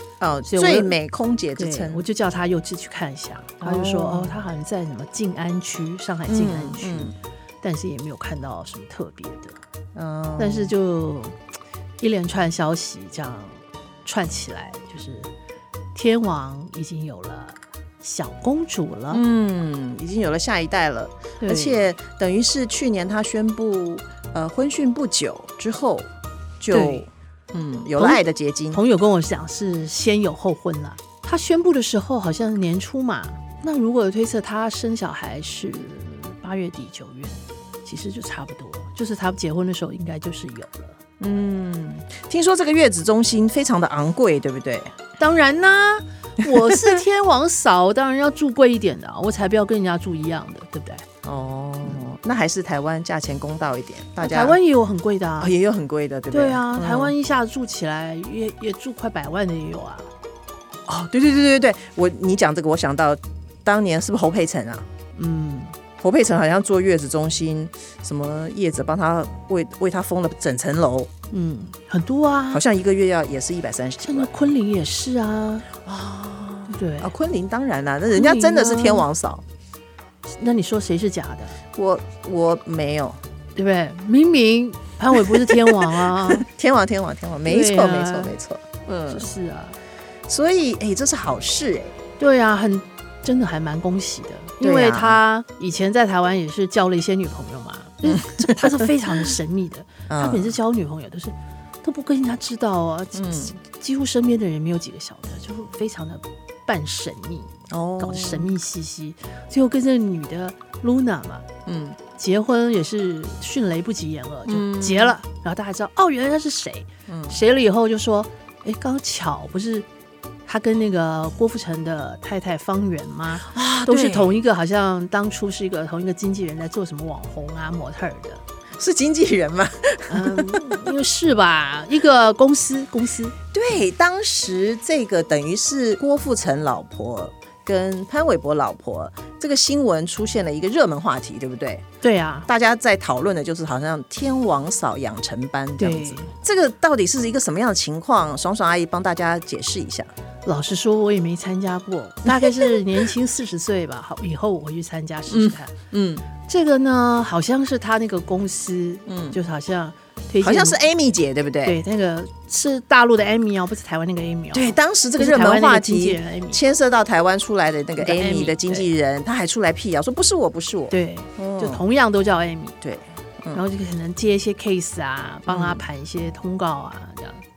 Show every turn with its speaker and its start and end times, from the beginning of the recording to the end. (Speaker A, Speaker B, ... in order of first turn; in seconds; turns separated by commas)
Speaker A: 0.2-2.0, Speaker B: 0.5-0.9, Speaker B: 1.6-9.6, Speaker A: 3.6-4.4, Speaker A: 6.3-7.1, Speaker A: 9.9-10.7, Speaker B: 10.4-11.4, Speaker B: 12.0-15.3, Speaker B: 15.9-19.2, Speaker A: 19.1-28.8, Speaker B: 21.4-21.9, Speaker B: 26.7-27.1, Speaker B: 28.7-41.0, Speaker A: 41.2-44.9, Speaker B: 45.2-51.0, Speaker A: 46.7-47.0, Speaker A: 51.2-54.6, Speaker B: 54.2-55.5, Speaker A: 55.4-57.1, Speaker B: 56.3-60.1, Speaker A: 60.9-64.8, Speaker B: 65.2-65.7, Speaker A: 66.0-71.1, Speaker B: 71.3-72.6, Speaker A: 72.5-74.3, Speaker B: 74.0-75.7, Speaker A: 75.8-79.4, Speaker B: 76.7-77.1, Speaker B: 78.1-79.1, Speaker B: 80.2-81.6, Speaker A: 81.7-83.2, Speaker B: 83.5-86.5, Speaker A: 85.3-89.3, Speaker B: 87.5-88.3, Speaker B: 89.1-89.8, Speaker A: 90.3-92.0, Speaker B: 92.2-111.5, Speaker A: 94.6-95.2, Speaker A: 98.0-98.9, Speaker A: 100.1-100.5, Speaker A: 103.1-103.5, Speaker A: 107.7-108.5, Speaker A: 111.7-112.0, Speaker B: 112.2-119.9, Speaker A: 114.5-115.2, Speaker A: 117.1-117.4, Speaker B: 120.5-128.4, Speaker A: 123.5-124.4, Speaker A: 128.8-130.8, Speaker B: 130.1-133.3, Speaker A: 133.5-141.8, Speaker B: 142.0-142.5, Speaker A: 142.5-150.1, Speaker B: 145.8-146.3, Speaker B: 150.4-155.7, Speaker A: 152.3-152.8, Speaker A: 155.3-156.3, Speaker B: 156.4-160.8, Speaker A: 159.1-159.4, Speaker A: 160.4-161.8, Speaker B: 161.6-166.6, Speaker A: 164.5-171.8, Speaker B: 168.0-168.9, Speaker B: 170.9-172.8, Speaker A: 172.8-173.6, Speaker B: 173.5-177.4, Speaker A: 175.5-175.8